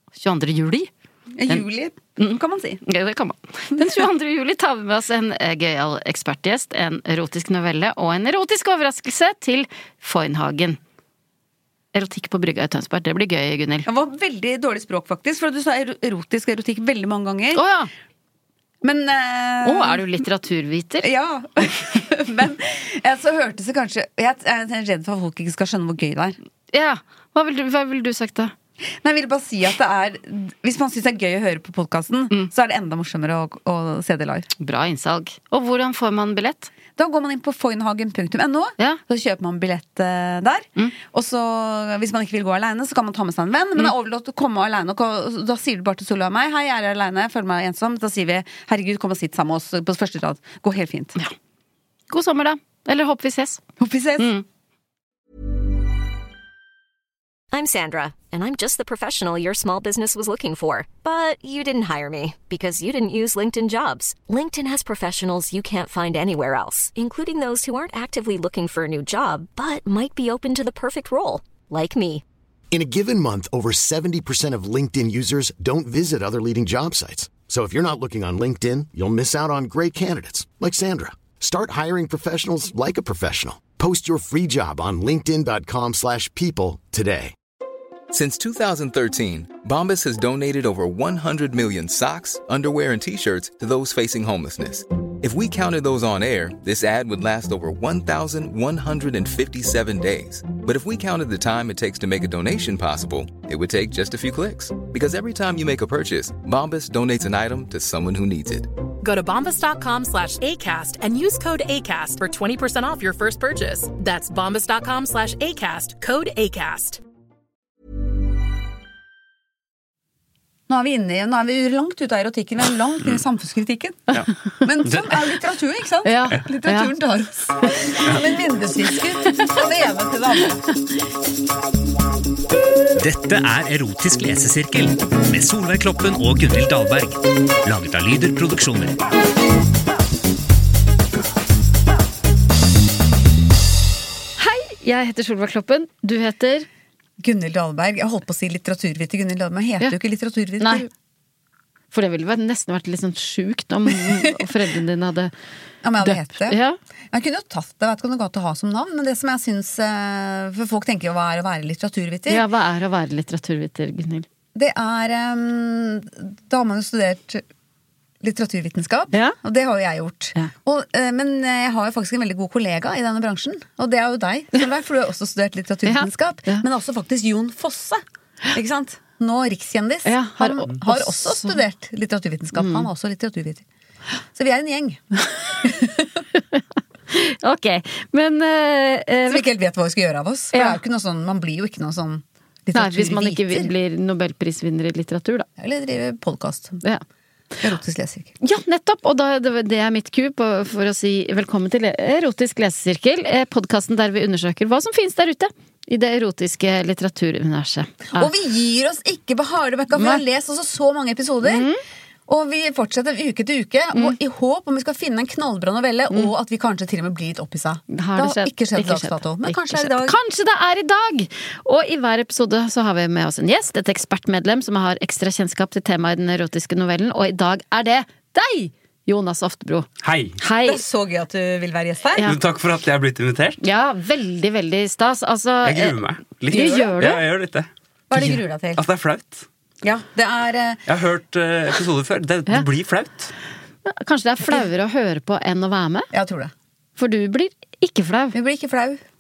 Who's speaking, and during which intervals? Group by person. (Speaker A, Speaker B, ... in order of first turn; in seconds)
Speaker A: 0.2-0.9, 2.2-10.8, 11.9-13.9, 17.6-17.9, 19.6-21.1, 26.7-28.5, 34.6-36.7, 52.1-53.6, 54.2-54.4, 126.0-126.9, 144.4-146.7, 150.6-150.8, 151.9-155.3, 156.0-156.8, 162.3-164.3, 169.1-169.4, 175.9-176.6, 180.1-181.6, 182.6-182.9, 187.1-189.5, 190.5-190.8, 192.7-195.5, 198.4-208.3, 210.0-210.2, 211.4-211.8, 217.9-229.9, 230.4-230.8, 233.6-237.2, 243.8-246.1, 247.0-248.4
Speaker B: 1.4-2.8, 13.9-17.6, 18.8-20.1, 21.0-26.4, 29.0-34.5, 37.0-51.2, 53.8-54.3, 120.7-130.6, 147.2-150.9, 155.8-156.6, 157.1-162.4, 164.6-167.4, 168.2-183.7, 184.3-186.0, 189.3-193.7, 195.6-196.8, 197.6-198.3, 208.2-211.7, 212.3-220.2, 230.6-232.2, 236.5-236.9, 238.1-238.8, 239.8-240.8, 246.1-246.5, 248.3-249.0
Speaker C: 57.5-72.2
Speaker D: 72.7-87.3
Speaker E: 88.1-108.7
Speaker F: 109.0-117.0
Speaker G: 124.8-125.3, 230.0-230.4, 232.2-233.6, 235.6-239.5, 240.9-243.3
Speaker H: 133.0-139.0